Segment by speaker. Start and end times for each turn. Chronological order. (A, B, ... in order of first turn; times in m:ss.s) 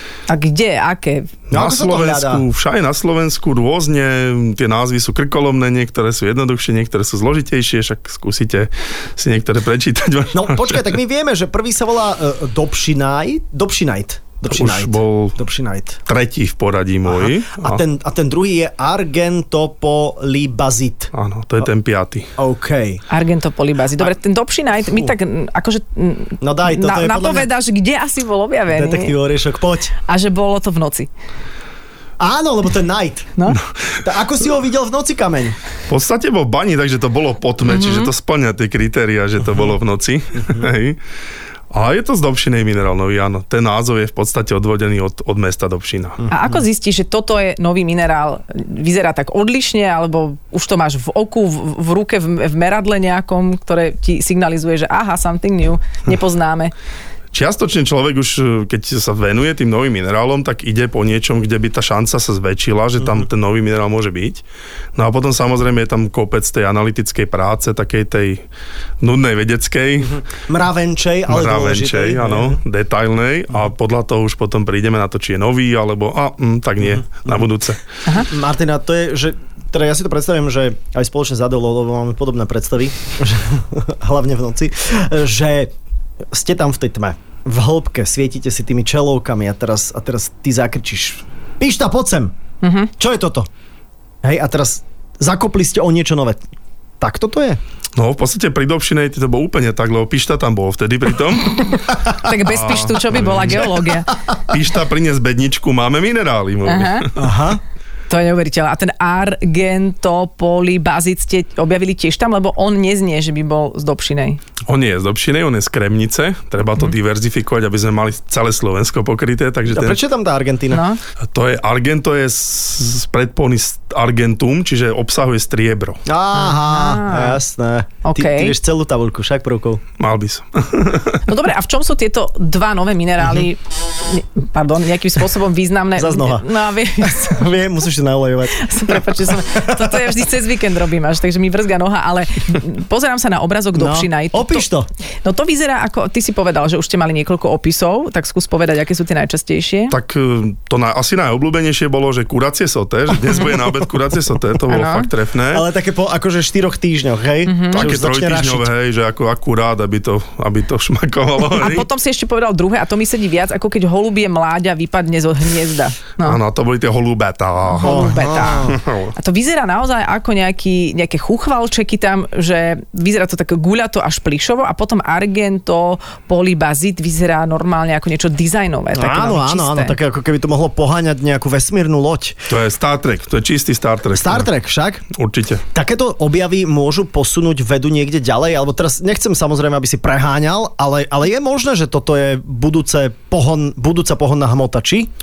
0:00.3-0:01.3 A
0:01.5-0:10.9 B
0:01.5-0:02.4 C
0:10.3-0:16.0 C
0:14.5-0:15.4 B
0:16.1-0:17.8 B
0:17.1-0:21.1 C
0:21.1-0:22.3 B
0:22.4-0:23.0 C
0:23.1-0:29.1 A
0:26.4-0:27.5 C
0:28.7-0:29.9 C
0:30.1-0:31.1 A
0:32.2-0:33.3 C
0:34.0-0:35.6 C
0:35.9-0:41.0 B
0:37.7-0:38.1 A
0:40.4-0:40.7 C
0:41.7-0:46.2 B
0:46.2-0:46.6 C
0:46.3-0:56.7 A
0:57.3-1:04.4 B
1:05.0-1:08.4 B
1:09.0-1:10.2 B
1:10.0-1:12.6 C
1:11.3-1:17.8 B
1:16.8-1:17.4 C
1:18.2-1:25.7 C
1:26.3-1:32.3 C
1:32.6-1:32.9 A
1:33.0-1:33.5 C
1:34.2-1:36.4 C
1:37.0-1:37.6 C
1:38.0-1:41.9 B
1:42.1-1:44.1 A
1:42.5-1:43.7 B
1:43.4-1:43.9 C
1:44.5-1:47.1 B
1:46.6-1:47.1 A
1:47.2-1:47.6 C
1:48.1-1:54.4 A
1:54.7-2:00.0 B
1:59.7-2:00.8 C
2:00.7-2:01.0 A
2:01.2-2:06.0 B
2:06.1-2:09.8 C
2:06.3-2:07.4 A
2:08.0-2:08.5 A
2:10.0-2:11.2 B
2:11.3-2:17.5 A
2:16.0-2:16.5 C
2:17.0-2:20.0 C
2:18.5-2:24.6 A
2:23.7-2:24.9 C
2:25.2-2:30.0 A
2:29.9-2:35.7 B
2:34.7-2:35.1 A
2:35.5-2:38.7 C
2:37.4-2:37.9 A
2:37.7-2:41.9 B
2:41.5-2:46.4 A
2:46.2-2:48.1 B
2:47.7-3:00.0 A
2:47.8-2:48.8 C
2:48.6-2:49.1 B
2:58.9-3:02.4 C
3:02.5-3:04.5 B
3:04.1-3:05.0 C
3:05.1-3:05.6 B
3:05.7-3:15.1 C